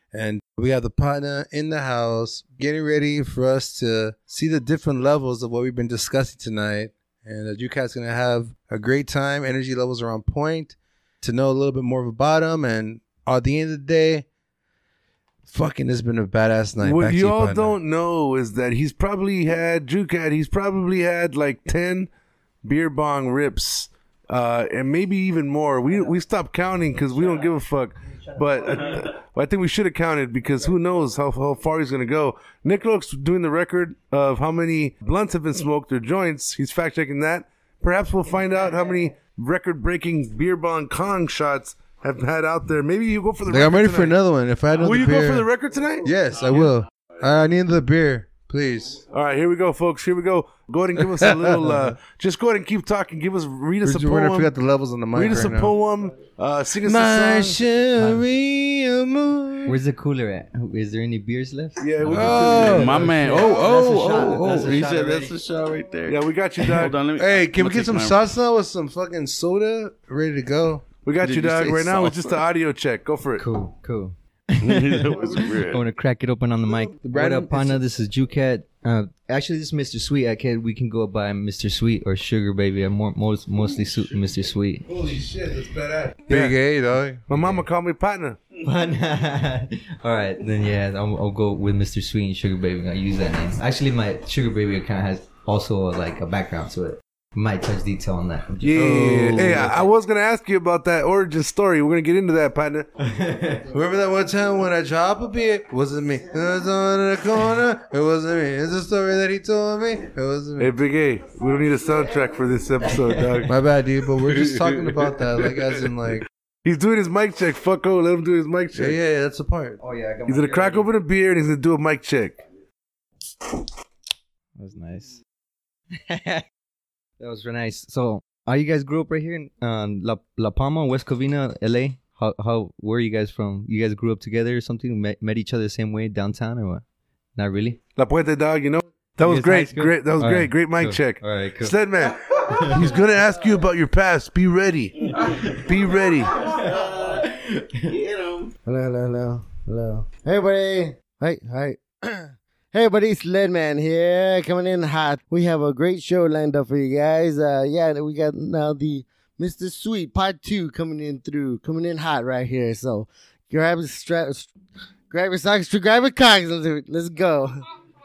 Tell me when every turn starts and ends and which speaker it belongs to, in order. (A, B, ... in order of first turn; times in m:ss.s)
0:00.1-0:14.3 A
0:15.5-0:17.8 A
0:16.8-0:22.1 B
0:22.6-0:44.2 B
0:43.5-0:45.5 A
0:44.8-0:46.7 B
0:46.0-0:49.0 A
0:49.1-0:54.5 B
0:51.1-0:51.8 A
0:53.8-0:55.7 A
0:55.1-0:57.6 B
0:56.8-0:59.8 A
0:58.0-0:58.2 C
0:59.7-1:05.3 C
1:01.8-1:03.1 B
1:02.0-1:04.7 A
1:02.2-1:08.2 D
1:06.1-1:07.0 B
1:07.2-1:10.9 A
1:11.0-1:13.4 B
1:11.2-1:12.4 D
1:13.4-1:24.9 C
1:14.6-1:15.8 D
1:15.1-1:15.5 B
1:17.0-1:17.8 A
1:24.9-1:26.6 B
1:26.3-1:27.3 A
1:27.3-1:28.4 B
1:28.6-1:39.9 C
1:38.6-1:42.9 B
1:38.8-1:39.7 A
1:43.0-1:43.7 C
1:43.7-1:50.7 A
1:50.6-1:53.6 B
1:53.5-1:56.3 A
1:56.6-1:59.0 B
1:58.8-1:59.8 A
1:59.8-2:00.9 C
2:00.3-2:02.4 B
2:04.6-2:05.2 C
2:06.1-2:06.4 C
2:07.2-2:16.8 C
2:17.4-2:17.8 C
2:18.0-2:26.4 B
2:19.2-2:21.8 C
2:22.4-2:22.9 C
2:26.3-2:26.6 C
2:26.4-2:27.3 D
2:27.1-2:27.8 C
2:27.8-2:28.5 D
2:28.7-2:44.5 E
2:45.1-2:47.6 E